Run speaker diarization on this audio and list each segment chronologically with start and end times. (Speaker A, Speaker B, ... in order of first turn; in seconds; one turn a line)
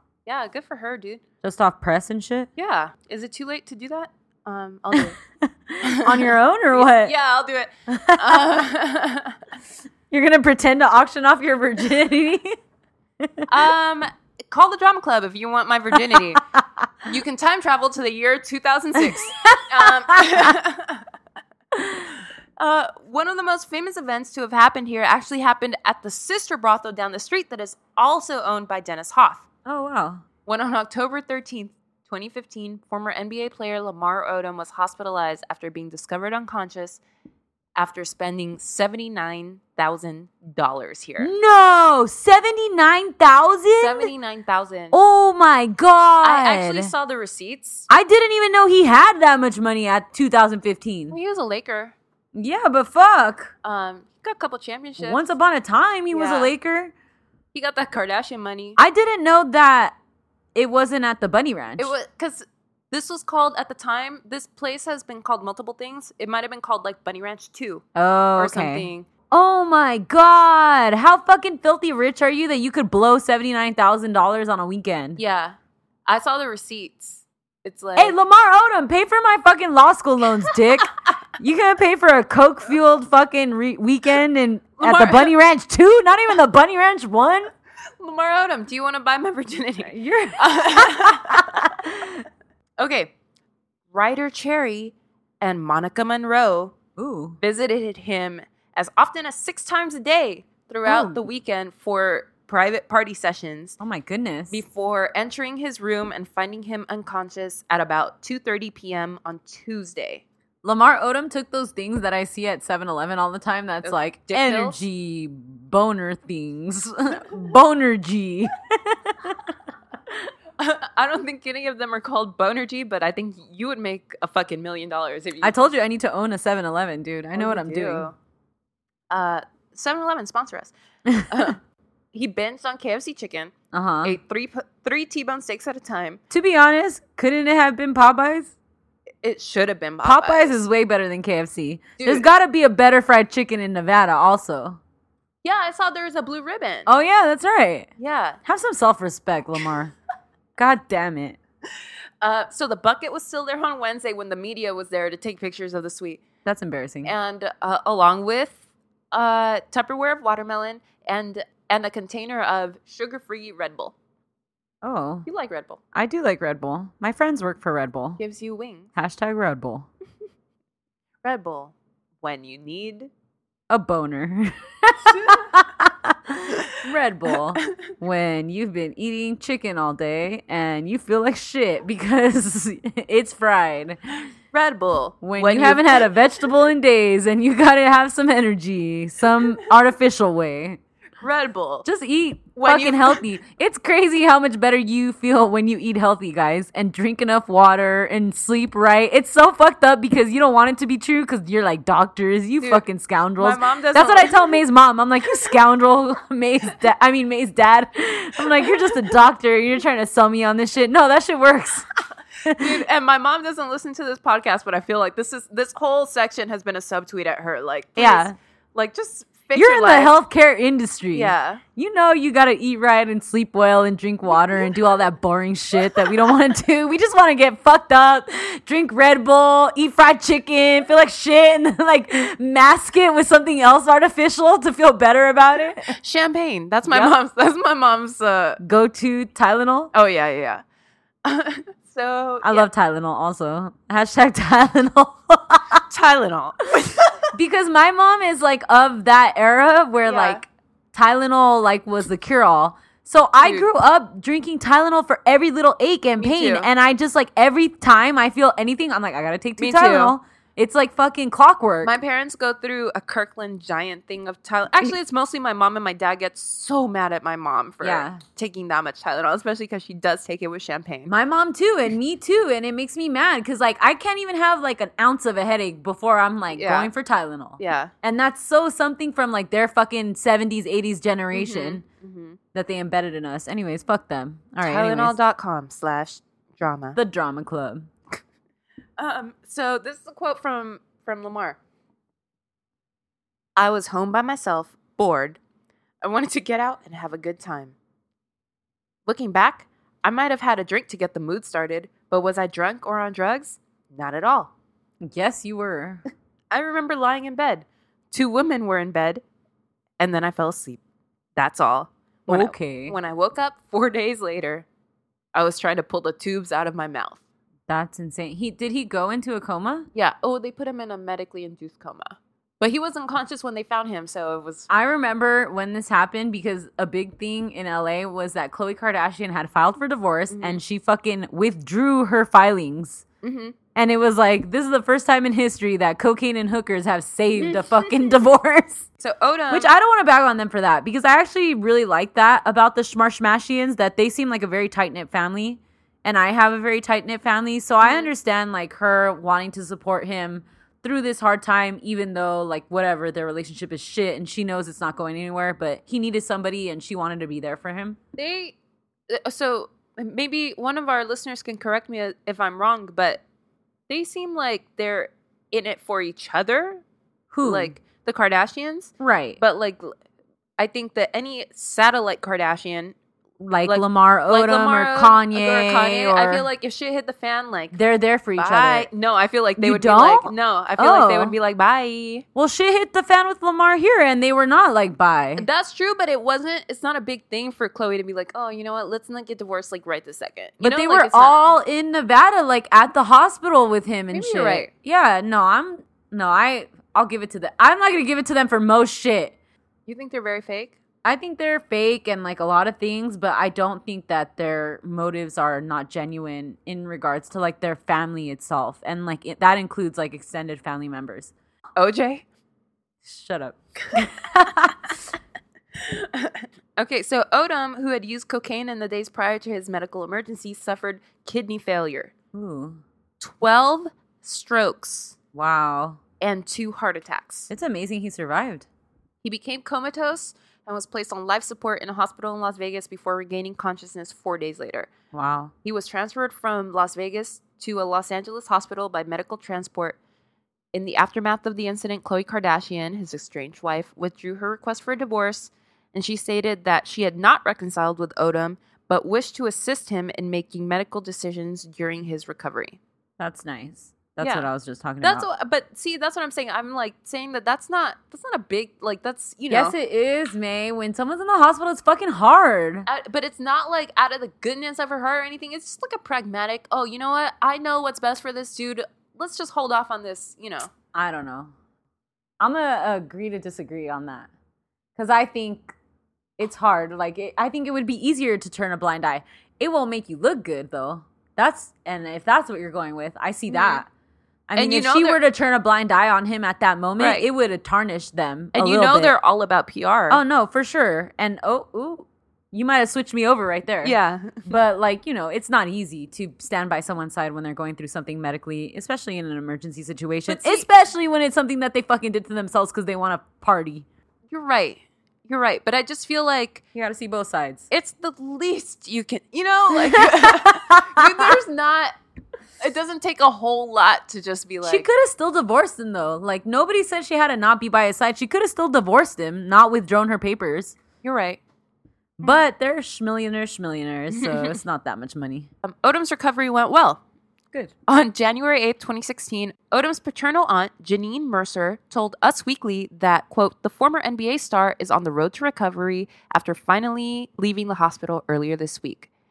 Speaker A: 0.3-1.2
Speaker B: 1.4-2.5
Speaker A: 2.6-5.2
Speaker B: 5.0-7.1
Speaker A: 5.8-9.4
Speaker B: 7.9-8.6
Speaker B: 10.1-12.6
Speaker B: 13.2-13.5
Speaker A: 13.5-16.4
Speaker B: 15.9-16.9
Speaker A: 17.0-21.0
Speaker B: 19.0-20.5
Speaker B: 21.8-22.1
Speaker A: 22.6-29.5
Speaker B: 29.6-30.2
Speaker A: 30.5-37.0
Speaker A: 37.8-41.3
Speaker B: 41.2-44.1
Speaker A: 43.8-45.0
Speaker B: 44.9-46.9
Speaker A: 46.2-47.9
Speaker B: 47.9-51.2
Speaker A: 51.1-52.0
Speaker B: 52.3-53.5
Speaker A: 53.6-55.3
Speaker B: 55.0-56.9
Speaker A: 56.1-56.5
Speaker A: 57.5-58.8
Speaker B: 58.8-60.0
Speaker B: 60.5-61.9
Speaker A: 61.8-67.8
Speaker B: 68.0-75.2
Speaker A: 68.4-69.1
Speaker A: 75.2-78.2
Speaker B: 78.0-87.5
Speaker A: 84.8-85.3
Speaker A: 88.0-91.7
Speaker B: 89.8-92.2
Speaker A: 92.8-93.1
Speaker A: 93.9-96.8
Speaker B: 97.0-97.4
Speaker A: 97.4-103.8
Speaker B: 100.8-101.2
Speaker B: 103.8-104.6
Speaker A: 104.5-110.2
Speaker B: 110.6-119.5
Speaker A: 113.8-114.8
Speaker A: 120.6-125.6
Speaker B: 125.4-128.1
Speaker A: 127.3-128.2
Speaker A: 129.1-130.7
Speaker B: 131.1-131.4
Speaker A: 131.3-131.6
Speaker A: 132.1-133.5
Speaker B: 133.7-134.2
Speaker A: 134.0-136.2
Speaker B: 136.3-138.5
Speaker A: 139.2-140.6
Speaker B: 140.0-144.8
Speaker A: 142.0-142.3
Speaker A: 145.4-146.9
Speaker B: 146.9-147.9
Speaker A: 148.0-148.4
Speaker B: 148.4-149.9
Speaker B: 150.6-151.4
Speaker A: 152.2-156.2
Speaker B: 156.4-157.1
Speaker A: 157.0-158.6
Speaker A: 159.1-163.9
Speaker B: 164.8-165.3
Speaker A: 165.3-165.8
Speaker B: 165.9-168.2
Speaker A: 168.2-168.9
Speaker B: 168.9-169.9
Speaker A: 171.2-173.1
Speaker B: 173.7-184.0
Speaker A: 175.1-175.4
Speaker A: 184.5-186.1
Speaker B: 185.2-190.8
Speaker A: 191.2-191.9
Speaker B: 191.8-211.9
Speaker A: 192.6-193.2
Speaker A: 203.4-204.6
Speaker B: 212.4-212.8
Speaker A: 212.5-220.1
Speaker B: 218.0-218.3
Speaker B: 219.5-235.9
Speaker A: 221.1-221.6
Speaker A: 235.9-238.6
Speaker B: 236.9-237.2
Speaker B: 238.6-239.9
Speaker A: 239.9-240.6
Speaker A: 241.2-242.7
Speaker B: 242.4-245.8
Speaker A: 245.9-247.2
Speaker B: 247.3-261.9
Speaker A: 250.0-250.4
Speaker A: 253.4-253.7
Speaker A: 256.2-256.7
Speaker A: 259.6-260.2
Speaker A: 261.8-271.1
Speaker B: 267.8-268.2
Speaker B: 271.1-281.8
Speaker A: 276.5-276.9
Speaker A: 277.6-277.9
Speaker A: 281.3-282.4
Speaker B: 282.5-285.1
Speaker A: 284.6-287.0
Speaker B: 287.0-287.9
Speaker A: 289.0-291.6
Speaker A: 293.6-295.4
Speaker A: 296.0-297.8
Speaker A: 299.1-304.5
Speaker B: 305.0-306.0
Speaker A: 306.5-309.2
Speaker A: 310.0-310.8
Speaker A: 311.4-314.7
Speaker B: 312.3-313.0
Speaker A: 315.4-317.2
Speaker B: 317.7-319.9
Speaker A: 319.9-324.7
Speaker B: 324.7-333.0
Speaker A: 330.3-330.6
Speaker A: 333.2-333.6
Speaker B: 333.8-338.9
Speaker A: 337.4-337.9
Speaker A: 339.0-339.7
Speaker B: 339.5-358.0
Speaker A: 347.8-348.1
Speaker A: 358.2-358.6
Speaker A: 359.1-363.2
Speaker A: 363.9-366.8
Speaker B: 367.3-367.8
Speaker A: 367.4-369.9
Speaker B: 369.0-369.4
Speaker A: 370.6-373.0
Speaker B: 373.4-376.5
Speaker A: 373.7-377.8
Speaker B: 377.7-378.9
Speaker A: 378.4-382.3
Speaker B: 379.6-381.3
Speaker B: 382.4-385.5
Speaker A: 385.4-391.5
Speaker B: 390.6-399.4
Speaker A: 394.1-394.7
Speaker A: 399.9-400.8
Speaker B: 401.0-411.3
Speaker A: 411.8-412.2
Speaker B: 413.1-415.0
Speaker A: 415.9-422.1
Speaker B: 422.3-422.8
Speaker A: 423.2-425.2
Speaker B: 425.3-426.0
Speaker A: 426.2-427.5
Speaker B: 427.5-428.7
Speaker A: 429.2-434.9
Speaker B: 435.1-435.5
Speaker A: 435.6-440.0
Speaker A: 440.7-452.8
Speaker B: 453.2-455.3
Speaker A: 454.2-454.5
Speaker A: 455.0-459.8
Speaker B: 459.5-462.9
Speaker A: 462.9-470.7
Speaker B: 470.9-471.5
Speaker B: 472.4-474.3
Speaker B: 475.0-475.7
Speaker B: 476.4-483.9
Speaker A: 483.5-483.8
Speaker B: 484.5-489.1
Speaker A: 484.6-485.2
Speaker A: 487.0-487.2
Speaker A: 488.5-490.2
Speaker B: 490.1-503.9
Speaker A: 493.8-494.5
Speaker A: 500.3-500.7
Speaker A: 504.3-506.6
Speaker B: 506.8-507.7
Speaker A: 507.7-511.9
Speaker B: 509.9-511.3
Speaker A: 512.6-514.9
Speaker B: 514.6-520.8
Speaker A: 521.0-521.4
Speaker B: 522.2-525.5
Speaker A: 524.1-524.6
Speaker A: 525.6-527.0
Speaker A: 527.9-539.1